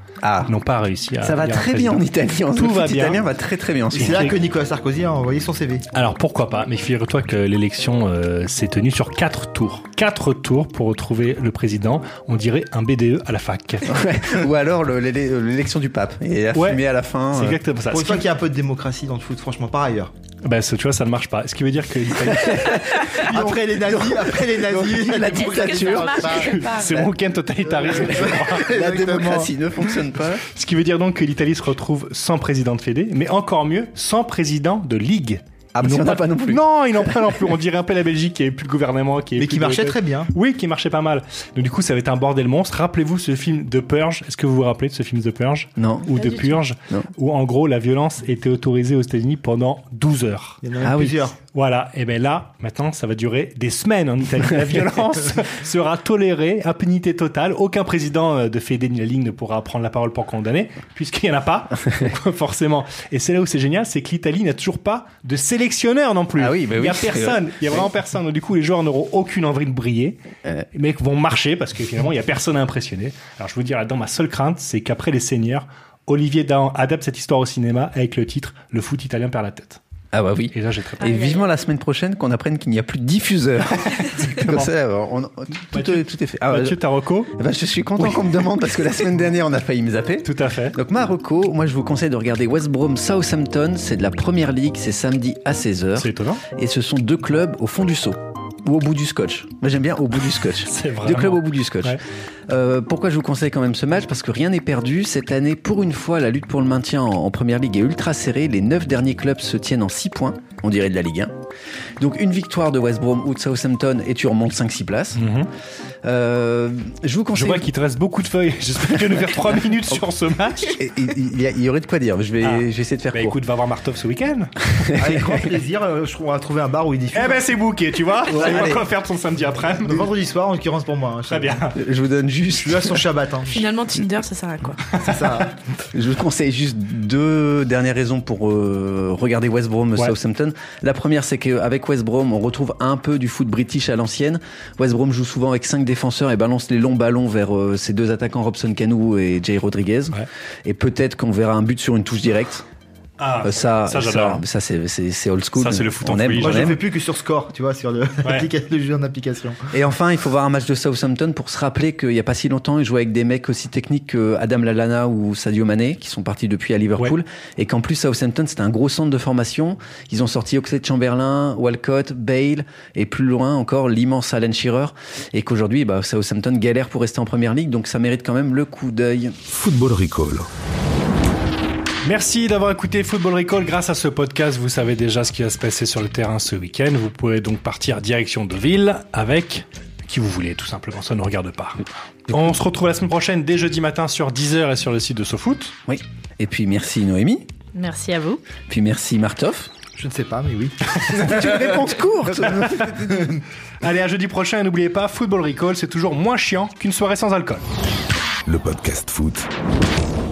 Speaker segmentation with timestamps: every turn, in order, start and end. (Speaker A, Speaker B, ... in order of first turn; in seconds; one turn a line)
Speaker A: 0.2-0.5
Speaker B: 0.5-3.2
Speaker A: 1.2-4.3
Speaker C: 3.9-5.8
Speaker B: 4.0-4.3
Speaker B: 5.9-14.0
Speaker A: 13.9-17.6
Speaker B: 16.5-18.3
Speaker C: 17.9-20.1
Speaker B: 20.4-22.9
Speaker A: 22.2-27.0
Speaker C: 23.1-26.5
Speaker D: 25.3-27.1
Speaker B: 26.3-28.7
Speaker C: 27.8-29.5
Speaker A: 27.9-30.4
Speaker B: 30.5-50.6
Speaker A: 35.7-37.5
Speaker C: 39.4-40.3
Speaker A: 45.8-46.1
Speaker D: 46.1-46.6
Speaker C: 50.6-51.4
Speaker A: 50.8-51.3
Speaker B: 51.5-70.2
Speaker A: 66.4-67.9
Speaker B: 70.7-79.8
Speaker A: 80.1-111.3
Speaker B: 80.5-81.2
Speaker D: 81.0-81.4
Speaker B: 83.9-84.7
Speaker B: 85.7-87.3
Speaker B: 88.0-88.3
Speaker B: 90.2-90.8
Speaker B: 96.0-96.4
Speaker B: 100.7-102.0
Speaker A: 112.0-115.2
Speaker B: 115.2-115.5
Speaker A: 116.0-117.7
Speaker B: 117.3-120.8
Speaker A: 120.7-123.4
Speaker B: 122.4-124.5
Speaker A: 124.8-125.4
Speaker C: 125.0-127.5
Speaker B: 127.1-130.1
Speaker C: 128.3-128.8
Speaker A: 128.3-128.8
Speaker C: 129.8-131.7
Speaker B: 131.3-131.8
Speaker A: 131.7-133.0
Speaker C: 132.5-133.7
Speaker D: 133.5-134.8
Speaker B: 135.0-135.4
Speaker C: 135.0-135.5
Speaker A: 135.9-152.6
Speaker B: 153.2-154.4
Speaker A: 153.4-156.8
Speaker B: 155.6-156.8
Speaker C: 156.4-159.6
Speaker A: 159.7-179.4
Speaker E: 179.5-180.5
Speaker B: 182.0-195.8
Speaker A: 195.8-197.4
Speaker D: 197.7-198.4
Speaker A: 198.7-199.7
Speaker C: 199.9-201.9
Speaker A: 201.1-203.2
Speaker C: 202.5-203.4
Speaker B: 202.6-203.1
Speaker B: 203.8-207.6
Speaker E: 208.4-209.5